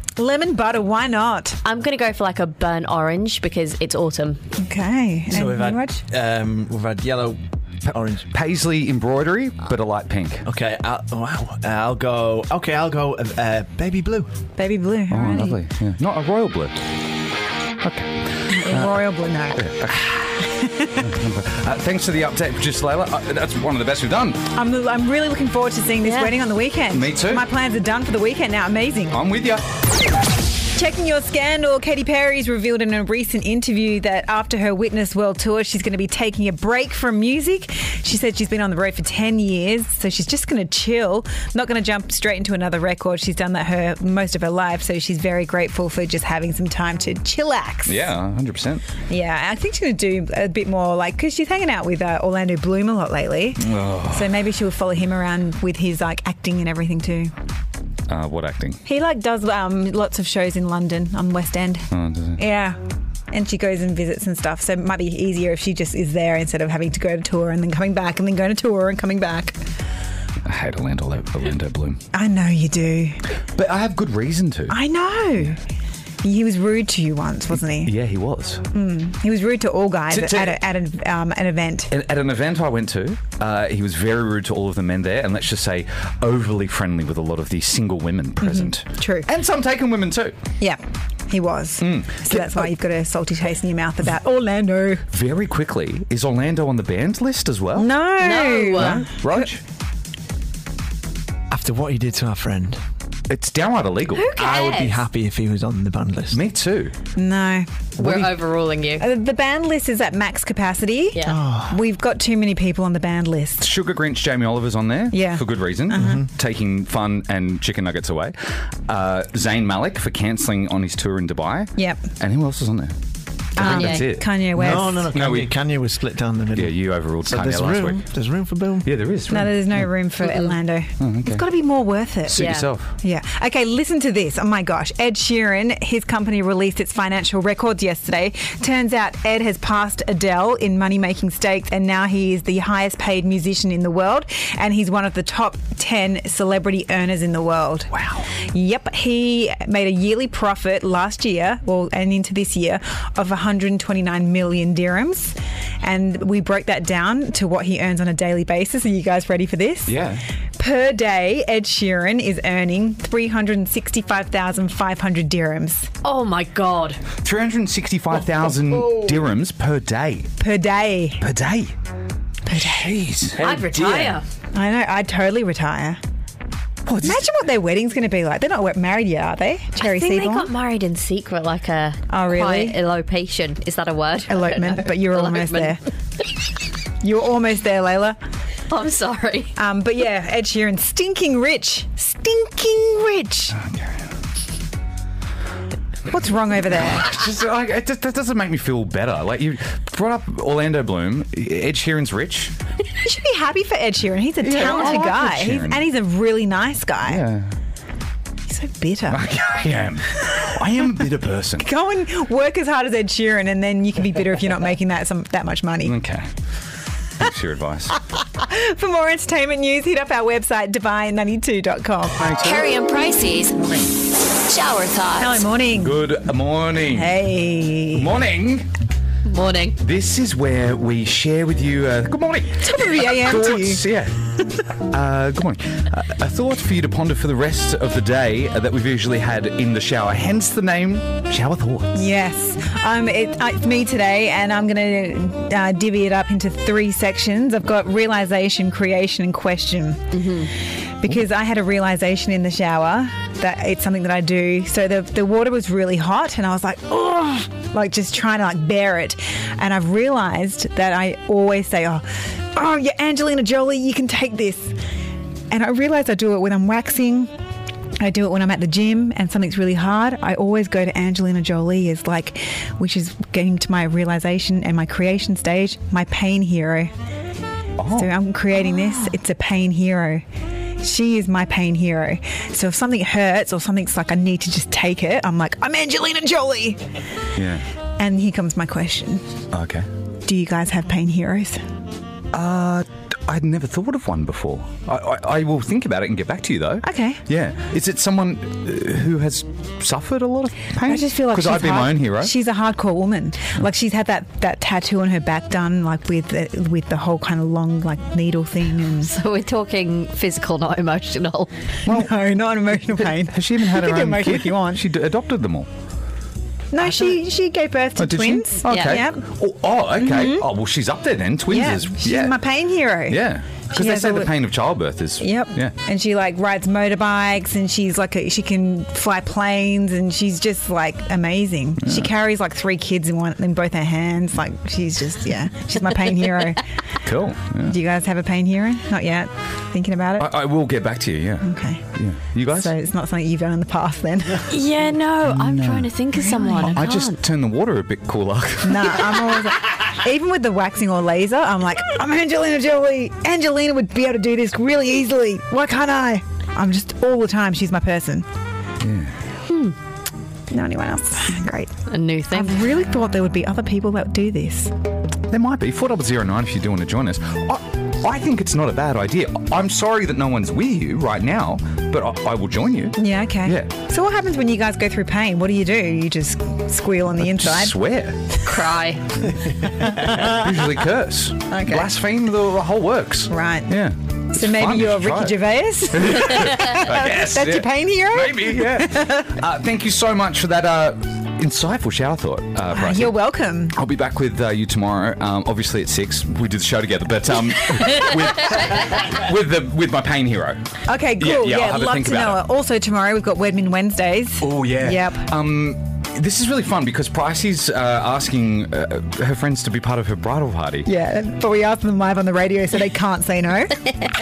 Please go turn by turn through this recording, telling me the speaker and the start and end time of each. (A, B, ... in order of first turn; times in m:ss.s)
0:00.2-0:01.6 A
0:01.6-0:04.5 B
0:04.6-0:06.0 A
0:05.3-0:08.3 C
0:07.9-0:10.5 D
0:10.5-0:14.3 C
0:14.6-0:15.6 A
0:15.1-0:16.7 D
0:17.8-0:20.5 D
0:18.5-0:19.6 A
0:20.4-0:21.1 A
0:21.0-0:24.4 D
0:24.6-0:29.2 A
0:26.0-0:26.4 B
0:26.9-0:27.4 D
0:29.1-0:29.6 D
0:30.8-0:48.1 A
0:47.9-0:48.8 D
0:49.1-0:57.3 A
0:53.6-0:54.5 D
0:58.1-0:58.8 D
0:58.8-1:02.8 A
1:01.9-1:02.4 D
1:03.3-1:09.6 A
1:10.5-1:12.0 D
1:12.1-1:13.2 A
1:13.6-1:14.8 D
1:14.7-1:15.6 A
1:16.2-1:17.9 A
1:17.8-1:18.6 D
1:18.7-1:21.9 A
1:20.1-1:20.6 D
1:21.9-1:30.4 D
1:28.4-1:29.3 A
1:30.6-1:35.1 A
1:31.8-1:32.7 D
1:35.1-1:38.0 D
1:37.8-1:39.1 A
1:38.2-1:39.1 B
1:38.7-1:39.6 D
1:41.5-1:42.8 C
1:43.3-1:44.4 D
1:44.2-1:45.0 B
1:44.4-1:46.4 C
1:46.3-1:46.9 D
1:47.2-1:47.7 A
1:48.0-1:48.4 D
1:48.0-1:49.1 B
1:49.0-1:53.7 A
1:51.2-1:51.8 C
1:53.6-1:58.4 D
1:55.1-1:56.2 A
1:55.9-1:56.3 C
1:58.9-2:02.9 D
2:01.8-2:02.0 A
2:03.6-2:04.3 D
2:03.6-2:04.0 B
2:03.6-2:05.1 A
2:04.6-2:08.9 C
2:05.1-2:05.5 D
2:06.6-2:08.0 D
2:08.8-2:09.9 D
2:09.3-2:12.4 A
2:10.2-2:10.5 B
2:11.0-2:11.5 D
2:12.3-2:12.9 D
2:12.4-2:12.7 B
2:13.0-2:40.0 A
2:27.9-2:28.3 D
2:39.9-2:40.2 D
2:40.6-2:45.9 A
2:46.0-2:47.0 B
2:47.2-2:50.3 D
2:50.4-2:51.3 A
2:51.2-2:51.7 D
2:52.5-2:53.0 A
2:52.5-2:54.2 D
2:53.4-2:54.2 B
2:54.5-2:56.0 A
2:56.9-2:57.3 D
2:57.0-3:00.5 A
2:59.8-3:05.8 B
3:02.1-3:02.8 A
3:04.3-3:05.8 A
3:07.0-3:08.2 A
3:08.7-3:09.5 B
3:09.6-3:13.6 A
3:13.6-3:14.0 D
3:16.1-3:17.1 A
3:16.9-3:22.5 D
3:23.0-3:27.2 A
3:24.4-3:25.9 D
3:27.1-3:27.5 D
3:28.5-3:29.6 A
3:29.1-3:31.7 D
3:31.6-3:36.0 A
3:35.9-3:36.3 D
3:37.2-3:38.0 D
3:38.2-3:42.2 A
3:42.2-3:42.7 D
3:42.4-3:43.6 E
3:43.6-3:43.9 D
3:44.5-3:45.4 E
3:45.2-3:46.0 A
3:45.8-3:47.2 D
3:46.9-3:48.1 A
3:47.9-3:48.7 D
3:49.3-3:49.8 B
3:49.8-3:54.2 D
3:52.6-3:53.8 A
3:54.9-4:01.9 D
4:01.9-4:10.2 A
4:10.1-4:10.5 B
4:11.0-4:24.7 A
4:25.5-4:27.3 A
4:28.0-4:36.9 A
4:37.8-4:38.1 D
4:38.0-4:40.2 A
4:40.8-4:46.8 A
4:47.4-4:47.6 D
4:48.0-4:49.3 A
4:49.5-4:49.9 D
4:50.2-4:51.6 A
4:52.3-5:02.3 D
4:56.8-4:57.2 A
5:00.9-5:09.2 A
5:09.1-5:11.5 B
5:11.9-5:12.1 D
5:11.9-5:14.8 A
5:13.0-5:15.7 D
5:16.7-5:19.2 A
5:18.0-5:22.4 D
5:18.7-5:19.0 B
5:20.0-5:20.5 A
5:21.5-5:24.3 A
5:23.1-5:25.8 D
5:25.2-5:36.6 A
5:31.8-5:32.1 D
5:37.0-5:37.8 D
5:37.7-5:40.3 A
5:40.2-5:42.7 D
5:41.4-5:41.9 A
5:42.5-5:44.5 A
5:44.5-5:47.2 B
5:45.2-5:45.9 D
5:46.1-5:46.8 A
5:46.7-5:49.4 D
5:48.6-5:58.3 A
5:58.8-5:59.1 D
6:00.5-6:01.7 A
6:01.9-6:02.6 B
6:02.3-6:04.7 A
6:05.3-6:13.7 D
6:13.0-6:17.8 A
6:17.2-6:18.2 D
6:18.5-6:19.1 B
6:19.9-6:20.4 A
6:20.0-6:33.2 D
6:21.5-6:21.9 A
6:23.3-6:23.7 A
6:24.3-6:29.3 A
6:32.7-6:33.8 A
6:33.7-6:40.6 D
6:40.9-6:45.3 A
6:41.2-6:42.5 D
6:44.4-6:50.9 D
6:50.9-6:53.8 A